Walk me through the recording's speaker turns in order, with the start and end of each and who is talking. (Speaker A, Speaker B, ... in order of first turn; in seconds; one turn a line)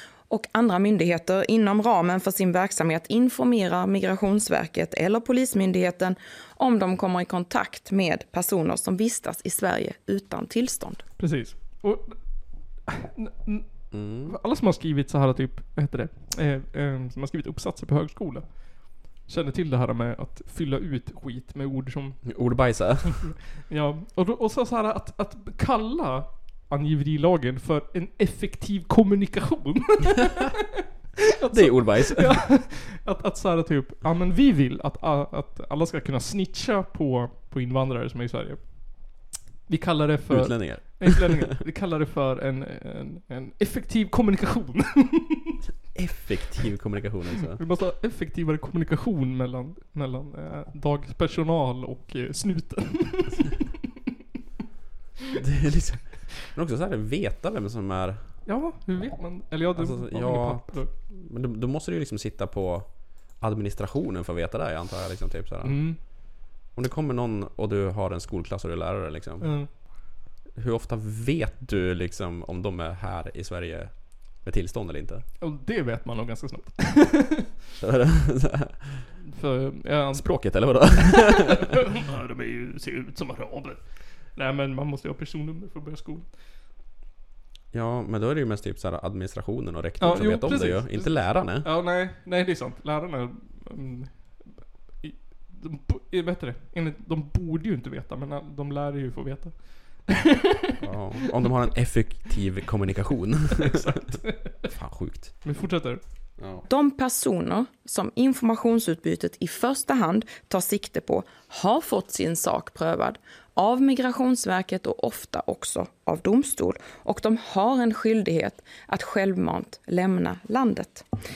Speaker A: 0.3-11.0
Speaker B: 11.2-22.9
Speaker C: 13.9-14.4
Speaker C: 22.2-23.3
Speaker B: 23.6-30.6
Speaker B: 31.4-45.6
Speaker C: 31.5-32.5
Speaker C: 40.3-41.5
Speaker C: 45.9-47.6
Speaker B: 47.5-53.6
Speaker C: 55.4-58.4
Speaker B: 58.4-60.9
Speaker C: 59.7-66.2
Speaker B: 65.6-66.0
Speaker C: 66.7-69.8
Speaker B: 69.4-69.7
Speaker C: 70.5-75.2
Speaker B: 75.4-77.5
Speaker C: 77.8-79.1
Speaker B: 79.2-86.3
Speaker C: 80.1-81.6
Speaker C: 87.7-91.7
Speaker B: 90.0-100.7
Speaker C: 100.8-105.4
Speaker B: 103.6-104.7
Speaker B: 105.4-106.0
Speaker C: 106.4-106.6
Speaker A: 106.7-121.0